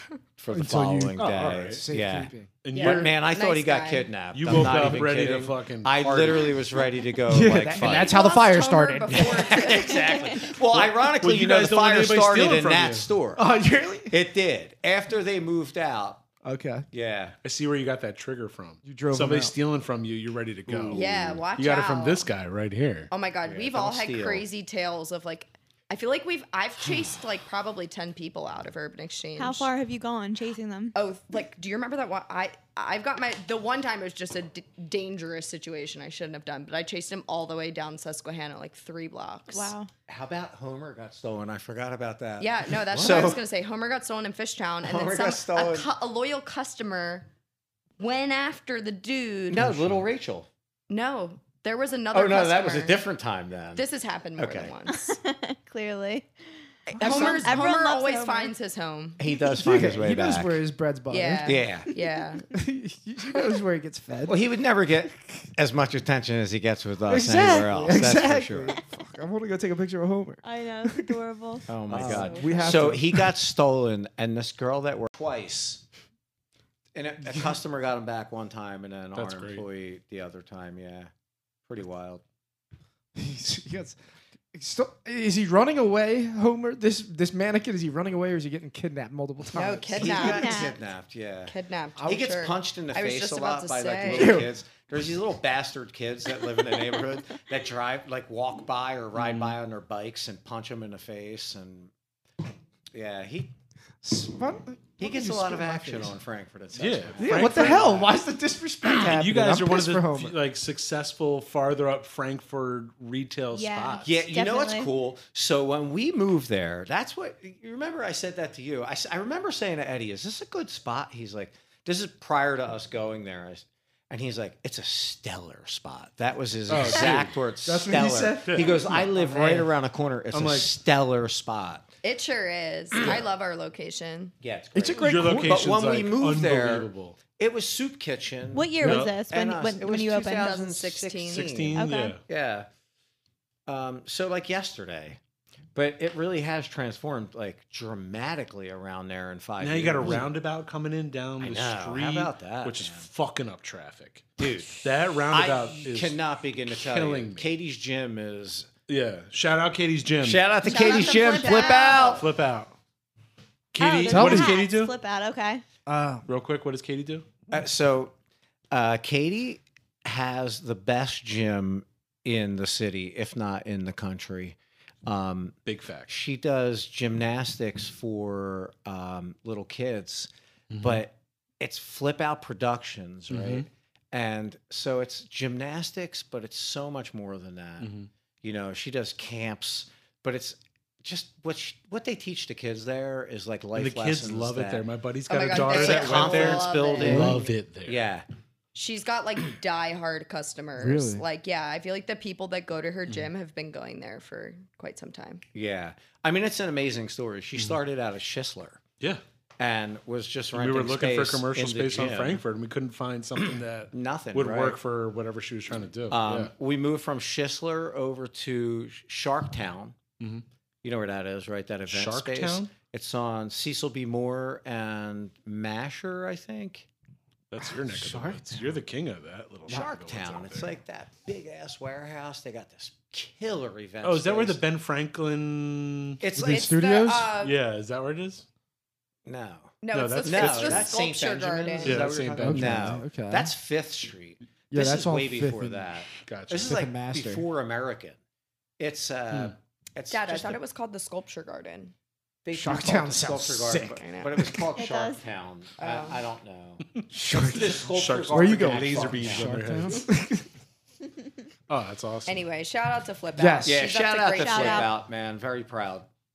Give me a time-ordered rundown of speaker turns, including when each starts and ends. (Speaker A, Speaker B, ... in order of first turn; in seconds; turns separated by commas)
Speaker A: 0.4-8.2, Speaker B: 0.5-2.6, Speaker C: 1.2-1.9, Speaker C: 2.6-3.1, Speaker D: 2.7-4.1, Speaker C: 4.3-6.7, Speaker B: 4.5-5.1, Speaker B: 7.3-9.7, Speaker D: 7.8-10.4, Speaker A: 9.1-13.4, Speaker C: 10.7-13.1, Speaker B: 13.4-14.1, Speaker A: 14.1-16.2, Speaker B: 16.4-16.9, Speaker A: 16.9-17.4, Speaker C: 17.4-21.0, Speaker B: 18.8-19.6, Speaker A: 20.7-21.4, Speaker D: 20.9-22.3, Speaker C: 21.6-23.1, Speaker D: 23.1-29.7, Speaker A: 23.5-24.4, Speaker E: 29.4-30.9, Speaker D: 30.9-39.7, Speaker E: 39.5-39.9, Speaker A: 40.1-43.4, Speaker D: 42.4-47.3, Speaker C: 43.0-43.3, Speaker A: 44.8-45.9, Speaker D: 48.0-49.6, Speaker A: 49.5-50.5, Speaker C: 49.6-50.0, Speaker D: 50.9-53.0, Speaker A: 52.1-53.8, Speaker D: 53.8-55.2, Speaker A: 54.4-54.7, Speaker E: 54.9-56.3, Speaker D: 56.9-59.2, Speaker E: 56.9-58.5, Speaker A: 59.2-60.6, Speaker B: 59.5-61.6, Speaker D: 61.1-62.5, Speaker A: 61.5-61.9, Speaker B: 62.5-64.5, Speaker A: 64.3-68.8, Speaker B: 67.1-71.2, Speaker E: 70.4-71.7, Speaker A: 71.7-75.8, Speaker B: 71.9-73.3, Speaker D: 72.3-72.7, Speaker A: 77.0-81.1, Speaker C: 79.2-79.7, Speaker A: 81.7-82.2, Speaker B: 83.2-84.0, Speaker B: 84.5-90.2, Speaker D: 89.5-90.7, Speaker A: 89.9-101.9, Speaker E: 90.2-90.8, Speaker D: 91.5-94.4, Speaker B: 94.0-94.5, Speaker C: 99.2-99.6, Speaker A: 102.9-103.5, Speaker B: 104.0-106.2, Speaker A: 105.0-108.1, Speaker C: 106.8-108.1, Speaker B: 107.2-110.4, Speaker C: 108.9-114.2, Speaker E: 113.5-114.9, Speaker A: 114.0-131.9, Speaker C: 126.7-127.3, Speaker B: 126.8-129.7, Speaker C: 128.5-129.0, Speaker C: 130.3-130.7, Speaker D: 132.0-134.3, Speaker A: 133.0-133.2, Speaker A: 134.4-142.7, Speaker B: 134.8-135.7, Speaker C: 135.0-137.2, Speaker E: 138.5-140.6, Speaker C: 138.8-139.1, Speaker D: 140.3-141.5, Speaker C: 141.3-142.2, Speaker E: 141.8-142.2, Speaker A: 143.7-145.2, Speaker A: 145.8-150.3, Speaker C: 149.6-156.2, Speaker A: 151.4-153.1, Speaker A: 154.4-158.7, Speaker C: 156.7-157.5, Speaker C: 158.9-160.5, Speaker A: 160.2-162.2, Speaker E: 160.6-162.2, Speaker D: 160.6-162.2, Speaker C: 162.2-162.7, Speaker C: 163.7-164.9, Speaker E: 163.8-165.6, Speaker B: 164.1-164.6, Speaker B: 165.9-166.3, Speaker C: 166.3-167.3, Speaker A: 167.5-168.1, Speaker A: 168.7-175.6, Speaker C: 175.7-176.1, Speaker A: 176.1-187.9, Speaker C: 180.7-181.0, Speaker C: 183.3-183.7, Speaker C: 187.8-188.1, Speaker A: 188.4-194.8, Speaker C: 193.8-198.0, Speaker D: 195.3-197.4, Speaker A: 195.5-198.3, Speaker B: 197.0-197.5, Speaker D: 198.7-205.4, Speaker B: 200.8-201.2, Speaker A: 205.5-208.8, Speaker A: 209.6-212.4, Speaker C: 210.5-216.5, Speaker A: 213.9-214.8, Speaker A: 216.1-220.0, Speaker A: 220.8-226.9, Speaker C: 221.9-222.7, Speaker C: 227.5-230.7, Speaker B: 227.9-228.6, Speaker A: 229.7-234.6, Speaker C: 234.0-236.2, Speaker A: 236.2-236.8, Speaker B: 236.3-237.3, Speaker D: 236.4-237.6, Speaker C: 237.4-238.4, Speaker A: 239.3-248.2, Speaker D: 239.8-242.1, Speaker C: 239.9-240.9, Speaker C: 241.8-243.0, Speaker B: 242.4-243.5, Speaker B: 244.7-246.0, Speaker C: 246.2-246.8, Speaker B: 246.7-247.5, Speaker A: 248.8-250.6, Speaker D: 250.1-251.9, Speaker A: 252.4-259.5, Speaker B: 252.5-254.7, Speaker D: 254.0-254.3, Speaker E: 254.7-255.2, Speaker D: 255.8-256.2, Speaker B: 257.1-260.5, Speaker C: 257.6-260.1, Speaker C: 261.7-262.4, Speaker D: 262.3-264.9, Speaker B: 263.4-263.8, Speaker A: 263.6-266.1, Speaker E: 264.4-264.9